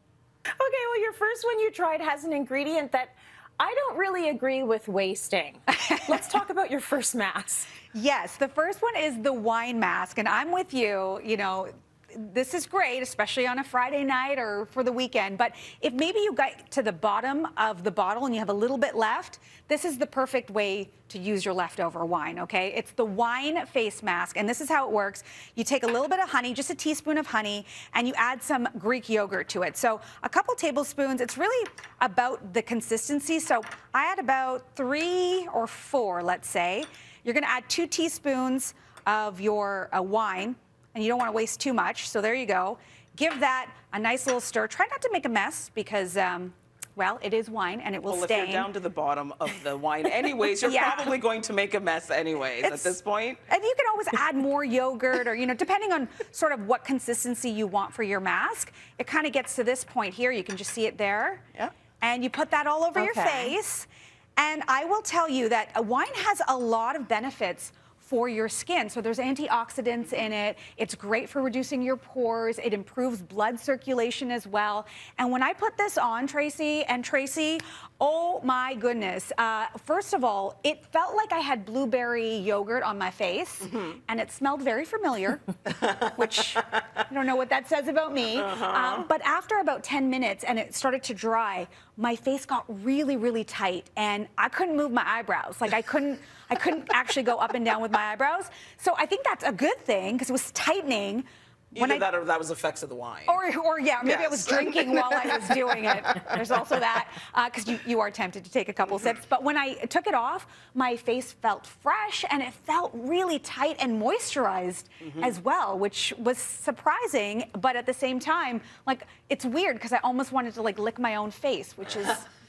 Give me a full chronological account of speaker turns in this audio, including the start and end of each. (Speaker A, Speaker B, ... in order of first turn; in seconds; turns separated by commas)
Speaker A: 0.6-7.7, Speaker B: 5.9-6.2, Speaker B: 7.9-48.7, Speaker C: 48.0-53.4, Speaker B: 50.5-51.1, Speaker B: 52.6-53.0, Speaker B: 53.5-61.4, Speaker B: 62.0-102.0, Speaker A: 62.9-63.5, Speaker C: 88.4-89.1, Speaker C: 101.7-103.4, Speaker B: 103.3-122.3, Speaker C: 104.0-106.4